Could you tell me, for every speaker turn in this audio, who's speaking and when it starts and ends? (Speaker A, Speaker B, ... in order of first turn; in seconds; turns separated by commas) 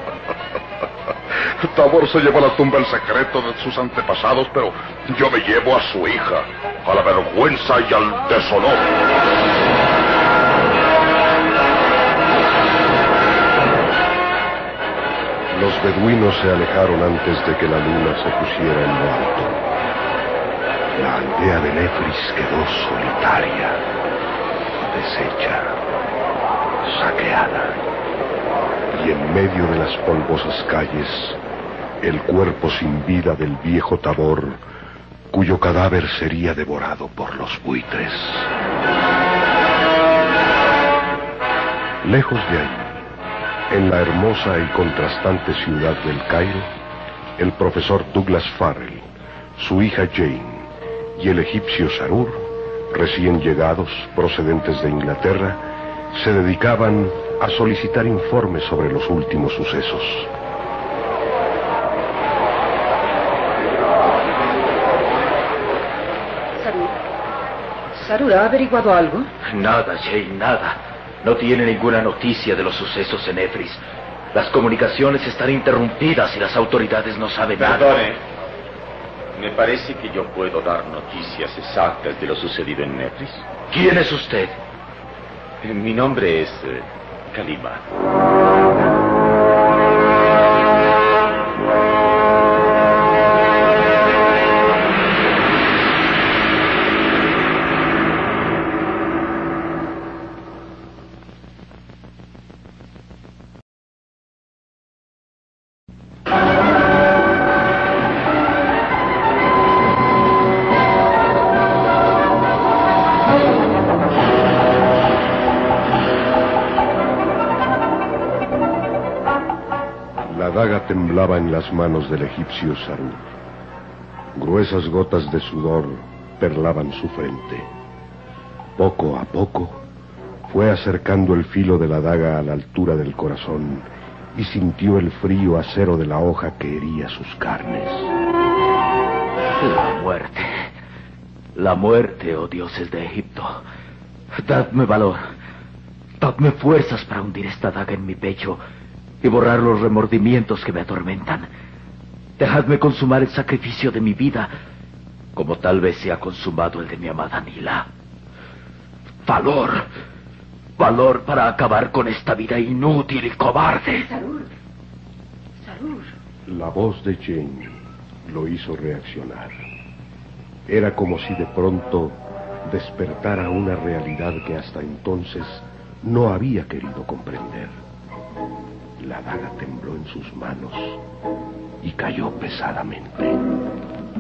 Speaker A: 1.5-8.9, Speaker B: 15.5-19.7, Speaker B: 20.9-23.9, Speaker B: 24.9-25.8, Speaker B: 26.8-27.8, Speaker B: 28.9-31.4, Speaker B: 32.0-34.6, Speaker B: 35.3-38.5, Speaker B: 42.0-43.0, Speaker B: 43.7-46.7, Speaker B: 47.4-60.3, Speaker C: 66.6-66.9, Speaker C: 67.9-69.3, Speaker D: 69.5-73.8, Speaker D: 74.3-78.0, Speaker E: 77.6-78.2, Speaker E: 79.3-83.5, Speaker D: 83.7-84.6, Speaker E: 85.6-87.8, Speaker B: 120.2-123.3, Speaker B: 124.3-127.7, Speaker B: 128.8-129.8, Speaker B: 130.5-138.1, Speaker D: 139.6-140.6, Speaker D: 141.6-143.6, Speaker D: 144.4-145.2, Speaker D: 146.2-148.6, Speaker D: 149.2-151.5, Speaker D: 152.4-154.5, Speaker D: 155.3-157.9, Speaker D: 159.2-159.9, Speaker D: 160.8-164.1, Speaker C: 163.9-164.5, Speaker C: 165.6-166.1, Speaker B: 166.5-169.5, Speaker B: 170.7-177.8, Speaker B: 179.0-181.0, Speaker B: 181.8-183.4